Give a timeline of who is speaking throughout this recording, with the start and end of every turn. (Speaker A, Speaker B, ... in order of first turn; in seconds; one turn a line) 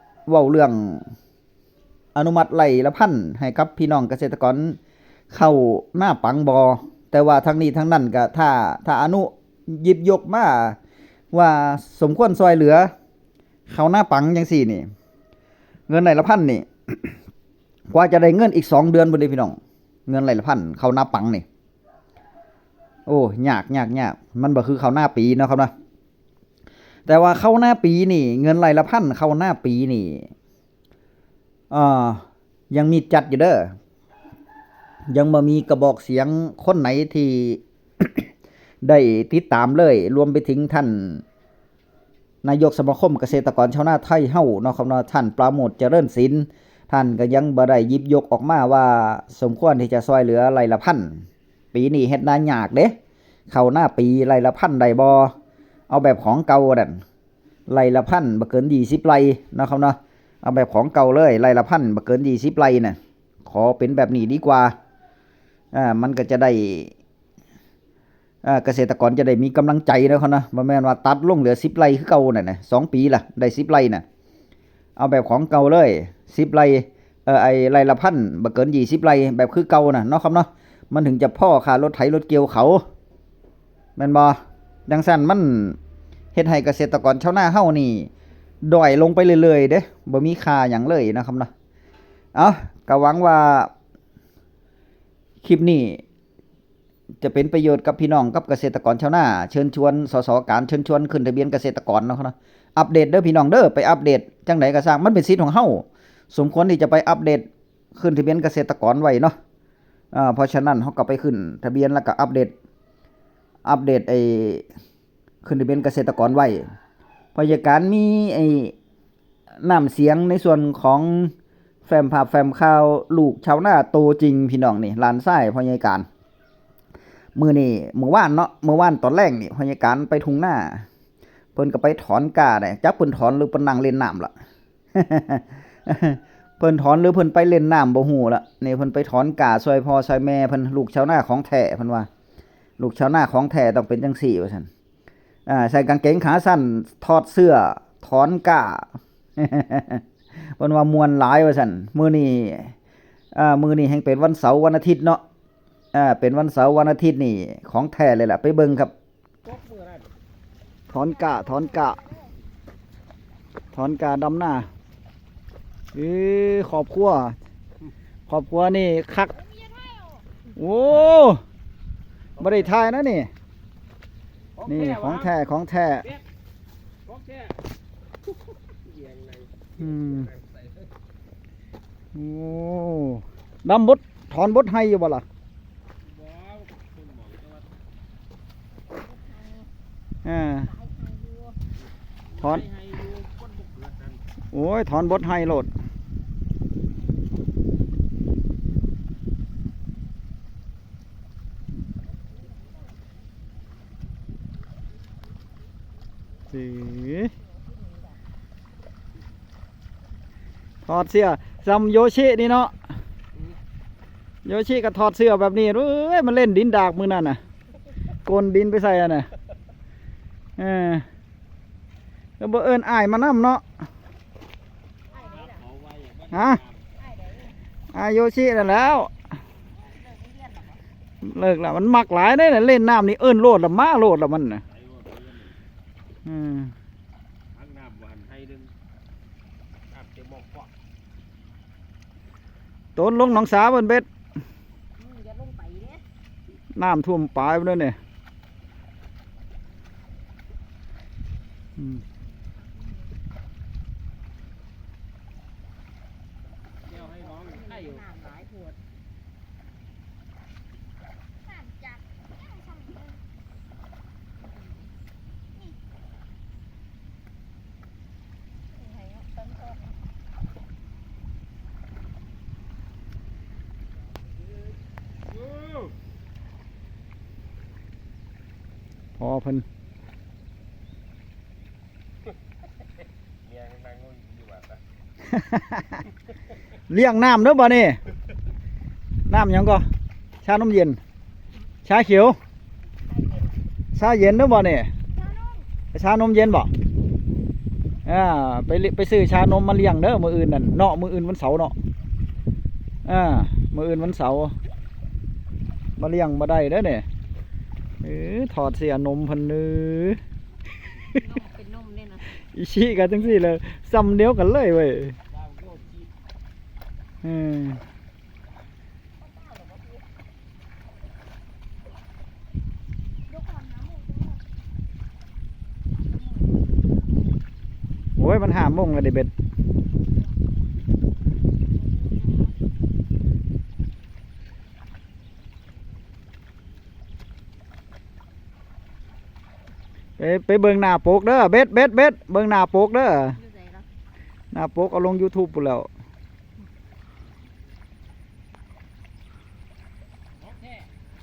Speaker A: 0.3-1.1
Speaker A: 2.1-4.8
Speaker A: 5.3-10.8
Speaker A: 11.3-12.9
Speaker A: 13.7-14.8
Speaker A: 15.9-17.2
Speaker A: 17.9-21.4
Speaker A: 23.1-25.7
Speaker A: 27.1-30.3
Speaker A: 31.7-33.7
Speaker A: 35.1-38.3
Speaker A: 38.8-41.2
Speaker A: 42.4-52.9
Speaker A: 53.5-55.3
Speaker A: 55.9-57.0
Speaker A: 57.7-64.7
Speaker A: 65.7-66.9
Speaker A: 68.4-74.0
Speaker A: 75.0-82.8
Speaker A: 84.0-85.8
Speaker A: 86.3-88.1
Speaker A: 88.6-91.5
Speaker A: 92.3-93.7
Speaker A: 95.4-96.0
Speaker A: 97.2-109.3
Speaker A: 110.1-112.5
Speaker A: 113.6-114.6
Speaker A: 115.4-116.6
Speaker A: 117.3-118.7
Speaker A: 119.6-121.3
Speaker A: 121.8-126.1
Speaker A: 127.3-130.8
Speaker A: 131.5-134.3
Speaker A: 134.9-142.1
Speaker A: 142.8-144.7
Speaker A: 145.5-148.8
Speaker A: 149.4-152.7
Speaker A: 153.3-155.2
Speaker A: 155.9-158.9
Speaker B: 159.4-160.1
Speaker A: 160.9-162.0
Speaker C: 161.2-162.3
Speaker A: 163.7-164.7
Speaker A: 165.9-167.3
Speaker A: 168.3-169.3
Speaker C: 169.3-170.2
Speaker A: 170.5-171.4
Speaker A: 172.4-173.3
Speaker B: 174.6-175.2
Speaker A: 174.6-176.1
Speaker B: 177.1-177.6
Speaker B: 178.5-180.7
Speaker A: 179.8-180.3
Speaker A: 182.1-185.2
Speaker B: 186.1-187.7
Speaker C: 188.9-189.7
Speaker A: 190.2-190.7
Speaker C: 190.6-191.6
Speaker A: 192.4-192.7
Speaker B: 192.5-194.2
Speaker A: 194.5-195.7
Speaker C: 202.5-202.9
Speaker A: 206.5-207.3
Speaker C: 207.3-208.2
Speaker A: 210.8-212.7
Speaker A: 214.4-217.4
Speaker A: 218.2-219.3
Speaker A: 220.6-221.1
Speaker A: 222.4-223.6
Speaker C: 225.1-225.6
Speaker B: 225.2-226.7
Speaker A: 226.3-226.6
Speaker C: 227.0-227.6
Speaker A: 227.9-229.1
Speaker C: 229.8-230.8
Speaker A: 231.2-234.6
Speaker B: 234.8-235.5
Speaker A: 236.2-236.7
Speaker B: 237.5-238.7
Speaker B: 239.9-240.7
Speaker A: 242.9-244.1
Speaker C: 245.0-246.0
Speaker A: 246.7-248.0
Speaker C: 252.6-253.1
Speaker B: 256.9-258.0
Speaker C: 256.9-258.7
Speaker C: 261.4-263.2
Speaker C: 264.4-264.9
Speaker C: 268.7-269.9
Speaker A: 279.2-279.6
Speaker B: 283.4-284.8
Speaker A: 285.3-286.0
Speaker A: 286.9-288.0
Speaker A: 289.3-289.8
Speaker A: 290.4-291.0
Speaker A: 291.8-292.4
Speaker C: 293.1-293.6
Speaker A: 293.9-294.9
Speaker C: 295.1-295.7
Speaker A: 295.9-296.7
Speaker A: 298.0-301.7
Speaker A: 303.1-304.5
Speaker A: 306.0-307.1
Speaker A: 308.0-310.2
Speaker C: 311.1-312.2
Speaker A: 312.3-315.2
Speaker B: 315.4-316.1
Speaker A: 317.2-317.8
Speaker C: 319.2-320.1
Speaker C: 323.3-324.4
Speaker C: 326.0-326.6
Speaker A: 328.2-329.3
Speaker C: 331.7-332.5
Speaker A: 340.2-343.4
Speaker C: 343.3-343.9
Speaker A: 344.5-345.9
Speaker B: 350.5-350.8